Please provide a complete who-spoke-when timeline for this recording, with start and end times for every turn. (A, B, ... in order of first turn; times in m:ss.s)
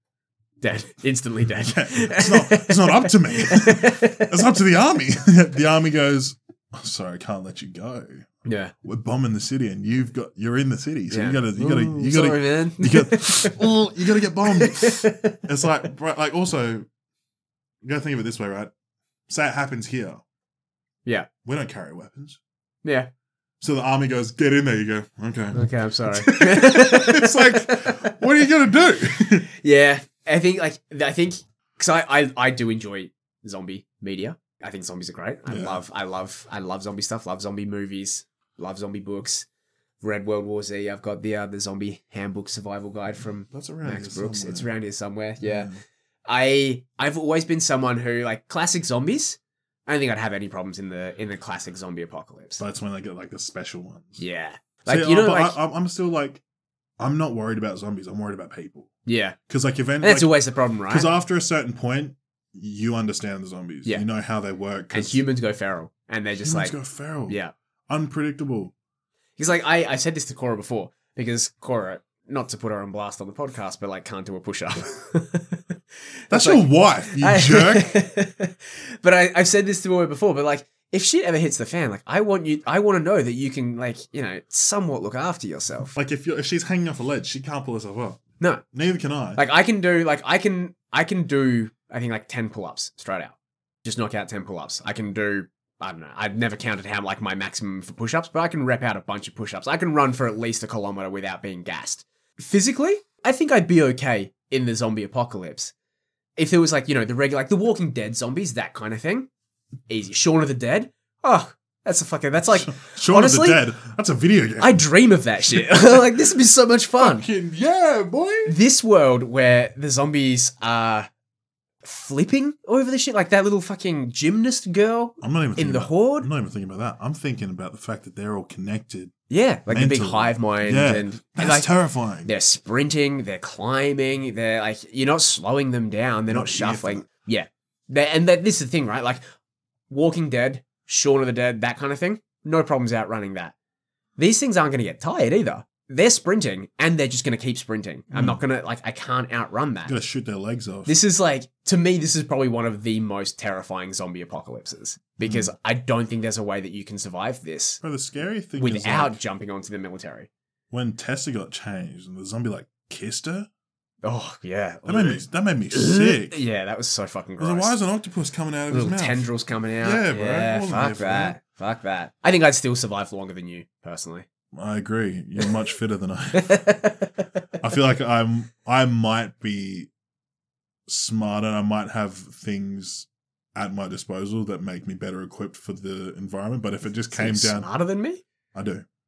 0:00.6-0:04.4 A
0:01.6-0:08.3 B
0:08.4-0:08.7 A
0:08.8-0:16.9 B
0:11.1-0:13.8 A
0:14.5-0:15.5 A
0:17.8-0:18.7 B
0:19.3-0:20.2 B
0:21.4-0:22.4 B
0:22.8-0:23.1 A
0:23.6-0:29.5 B
0:25.5-0:28.2 A
0:29.6-0:39.5 A
0:35.5-0:35.8 B
0:40.0-0:45.7 A
0:43.5-0:44.7 B
0:45.4-0:45.8 B
0:46.3-0:52.6 A
0:52.6-0:54.2 B
0:54.2-0:55.6 A
0:54.9-0:56.4 B
0:57.0-0:58.9 B
0:59.1-0:59.4 A
0:59.5-1:00.3 B
1:00.0-1:01.1 A
1:00.9-1:05.2 B
1:04.9-1:06.8 A
1:06.4-1:07.4 B
1:07.3-1:07.5 A
1:07.9-1:08.7 B
1:09.4-1:15.7 A
1:16.3-1:25.9 A
1:16.3-1:18.0 B
1:25.9-1:29.4 B
1:29.4-1:45.7 A
1:46.4-1:49.3 A
1:49.9-1:53.6 A
1:52.5-1:54.8 B
1:54.6-1:57.3 A
1:55.5-1:55.8 B
1:57.0-1:58.5 B
1:58.5-2:01.1 A
2:01.8-2:06.3 A
2:05.2-2:09.1 B
2:09.3-2:11.7 A
2:09.7-2:12.3 B
2:12.2-2:19.2 A
2:16.3-2:17.0 B
2:19.9-2:23.6 A
2:24.2-2:29.9 A
2:28.1-2:28.4 B
2:29.9-2:30.9 B
2:30.9-2:37.8 A
2:35.2-2:35.5 B
2:37.8-2:39.2 B
2:38.6-2:40.3 A
2:40.7-2:43.5 B
2:44.0-2:47.7 A
2:44.9-2:46.4 B
2:47.4-2:49.3 B
2:48.7-2:54.3 A
2:49.8-2:51.4 B
2:54.5-2:56.8 B
2:56.4-2:57.3 A
2:57.6-2:59.9 B
3:00.9-3:07.7 B
3:07.1-3:08.2 A
3:08.6-3:08.8 B